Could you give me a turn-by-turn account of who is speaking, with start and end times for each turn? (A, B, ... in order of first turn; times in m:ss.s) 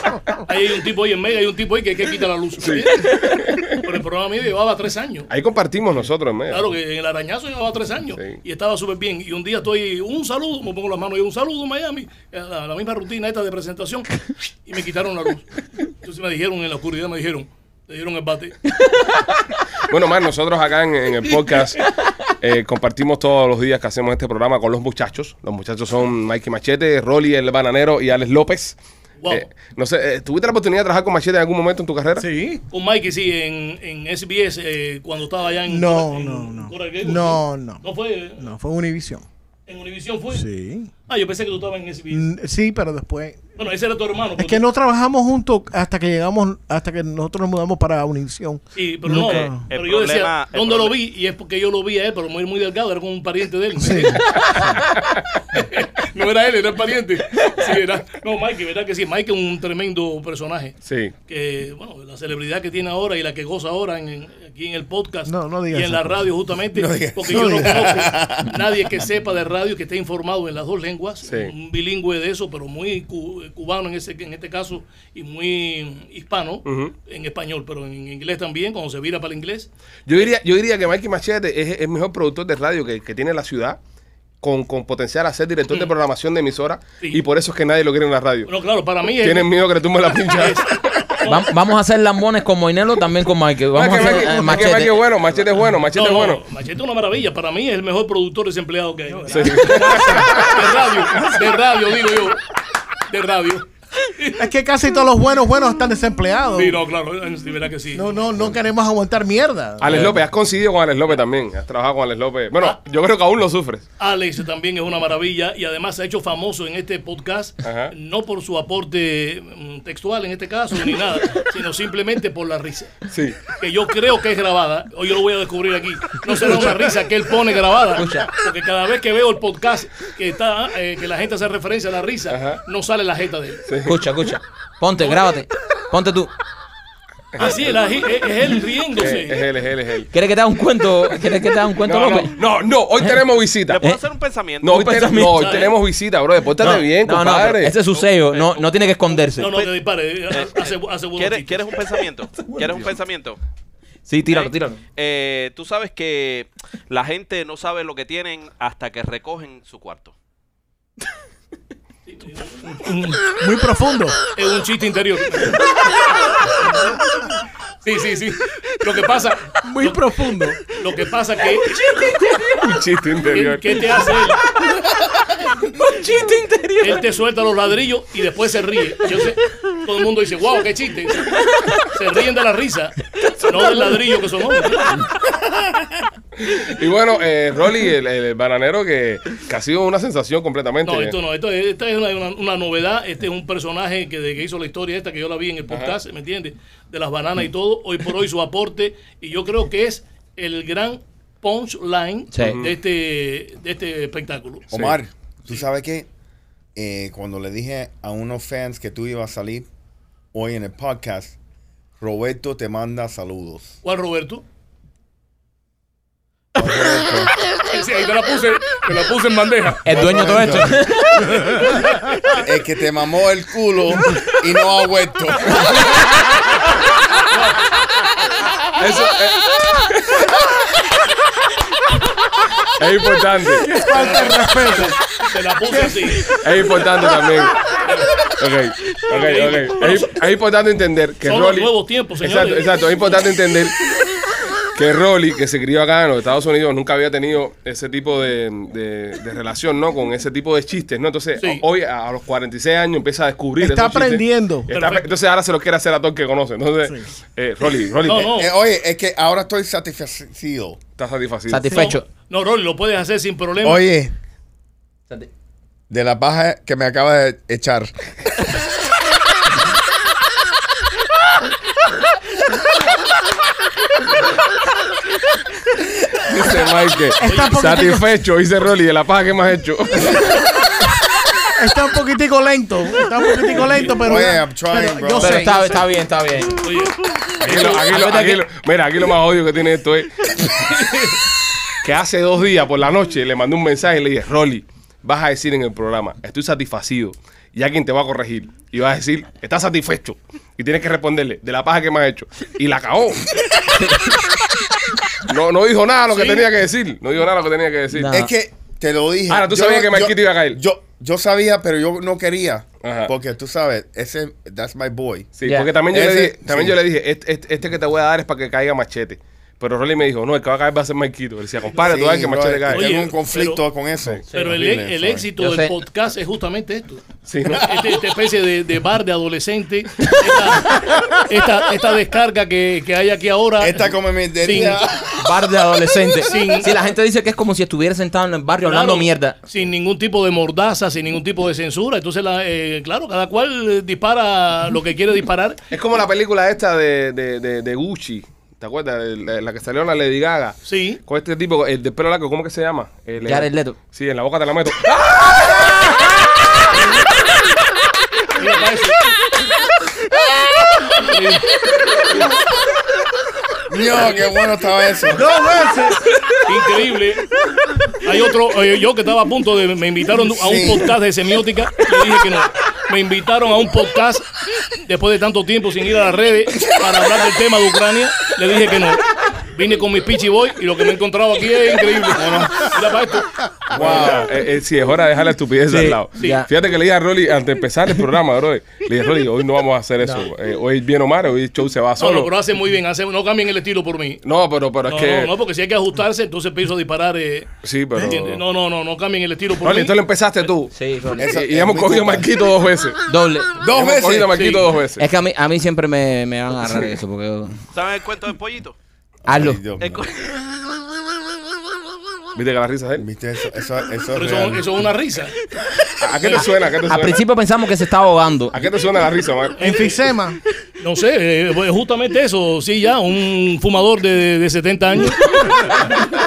0:00.4-0:05.3 A
0:02.6-0:03.8 B
0:05.3-0:06.7 B
0:06.5-0:18.6 A
0:19.8-0:28.8 B
0:29.2-0:29.5 A
0:29.3-0:32.3 B
0:32.2-0:32.6 C
0:32.7-0:38.5 A
0:35.7-0:37.8 C
0:38.4-0:39.2 C
0:39.7-0:40.5 A
0:40.3-0:40.9 C
0:41.1-0:42.3 A
0:42.1-0:43.4 C
0:43.6-0:44.6 A
0:44.4-0:49.6 C
0:48.7-0:54.7 A
0:49.1-0:50.9 D
0:53.8-0:54.8 C
0:55.5-1:19.7 A
1:00.8-1:01.1 B
1:05.3-1:06.3 C
1:06.7-1:08.5 E
1:07.3-1:07.9 C
1:11.2-1:11.5 B
1:16.6-1:16.9 B
1:20.0-1:23.8 B
1:24.4-1:28.5 B
1:28.4-1:29.5 A
1:29.2-1:31.0 B
1:30.3-1:31.5 A
1:31.2-1:35.0 F
1:33.7-1:36.4 B
1:35.9-1:42.4 A
1:39.3-1:40.7 B
1:43.1-1:44.4 A
1:44.3-1:46.8 C
1:46.5-1:48.2 A
1:47.9-1:50.1 C
1:49.8-1:53.8 B
1:54.0-2:13.6 A
1:57.6-1:57.9 B
2:03.1-2:03.5 B
2:07.9-2:08.3 F
2:12.3-2:12.6 B
2:13.6-2:14.0 B
2:13.8-2:16.3 F
2:17.4-2:17.7 B
2:17.4-2:19.5 A
2:19.0-2:20.1 B
2:20.1-2:22.4 F
2:21.8-2:23.8 B
2:23.7-2:25.7 D
2:24.6-2:27.8 B
2:24.6-2:25.7 F
2:26.6-2:29.5 F
2:27.9-2:28.7 D
2:29.3-2:31.8 A
2:29.4-2:29.7 D
2:30.3-2:33.4 D
2:34.0-2:34.8 F
2:35.0-2:40.1 D
2:42.1-2:43.3 A
2:43.3-2:44.2 C
2:44.3-2:45.7 A
2:47.8-2:52.0 A
2:49.6-2:50.6 C
2:52.6-2:53.8 B
2:53.2-2:54.4 A
2:55.9-2:57.0 F
2:56.8-3:05.0 A
3:06.4-3:11.2 B
3:10.8-3:24.7 A
3:15.7-3:16.0 B
3:22.3-3:22.6 F
3:22.4-3:22.7 B
3:24.7-3:26.1 E
3:24.7-3:25.0 B
3:26.7-3:29.7 E
3:30.3-3:31.4 E
3:32.0-3:33.8 E
3:33.8-3:34.4 A
3:36.5-3:37.3 E
3:37.6-3:39.9 A
3:39.8-3:41.3 F
3:39.8-3:40.9 E
3:41.4-3:41.9 A
3:42.3-3:45.8 E
3:47.3-3:47.6 A
3:48.8-3:50.2 B
3:52.8-3:53.7 B
3:53.6-3:56.4 C
3:53.9-3:56.4 A
3:56.4-3:57.6 B
3:57.7-3:58.2 A
3:58.3-4:03.8 B
3:59.1-4:00.1 A
4:01.2-4:02.7 A
4:04.7-4:18.4 B
4:11.4-4:11.6 A
4:13.6-4:14.7 C
4:14.7-4:15.1 A
4:18.0-4:18.5 A
4:18.2-4:20.8 E
4:21.0-4:21.9 B
4:21.5-4:22.0 F
4:21.7-4:23.8 A
4:23.6-4:24.1 E
4:25.9-4:27.9 E
4:36.2-4:40.4 B
4:37.2-4:38.1 C
4:37.2-4:37.6 A
4:41.6-4:45.7 C
4:44.0-4:45.8 E
4:45.2-4:46.6 F
4:46.6-4:47.8 A
4:47.4-4:50.7 B
4:47.5-4:48.4 F
4:50.5-4:51.2 A
4:51.8-5:03.6 B
5:03.6-5:04.2 F
5:05.2-5:08.2 B
5:06.1-5:06.4 A
5:07.9-5:08.3 F
5:08.1-5:15.3 E
5:09.3-5:10.6 B
5:12.8-5:13.1 B
5:15.4-5:22.9 B
5:15.4-5:15.7 F
5:15.9-5:16.8 E
5:21.7-5:25.3 E
5:22.7-5:23.6 A
5:24.3-5:24.6 F
5:24.3-5:34.8 A
5:25.4-5:25.7 F
5:27.2-5:27.7 B
5:33.6-5:35.2 E
5:35.1-5:39.4 F
5:36.2-5:36.8 A
5:38.6-5:45.6 A
5:45.7-5:55.8 B
5:50.6-5:51.0 A
5:53.2-5:53.8 F
5:58.3-5:59.0 A
6:00.9-6:02.1 A
6:03.7-6:05.3 E
6:05.2-6:06.1 C
6:06.4-6:07.3 A
6:08.0-6:24.3 A
6:10.3-6:10.9 E
6:22.1-6:22.8 E
6:23.7-6:24.3 E
6:23.7-6:32.3 B
6:25.7-6:26.5 F
6:26.2-6:26.4 A
6:32.0-6:34.2 A
6:34.2-6:35.3 B
6:34.8-6:40.0 A
6:37.6-6:38.4 B
6:39.6-6:43.0 B
6:40.7-6:41.4 F
6:41.2-6:42.3 E
6:43.1-6:43.6 F
6:43.6-6:44.4 E
6:43.6-6:45.1 B
6:44.4-6:44.6 A
6:45.0-6:47.6 F
6:47.7-6:48.8 D
6:49.2-6:50.1 E
6:49.3-6:49.6 F
6:49.8-6:50.3 D
6:52.3-6:53.0 B
6:53.0-6:54.7 E
6:54.1-6:55.4 A
6:56.0-6:57.2 B
6:56.3-6:58.6 F
6:58.5-7:00.0 B
6:59.6-7:00.4 C
6:59.6-7:00.0 A
7:00.8-7:05.8 A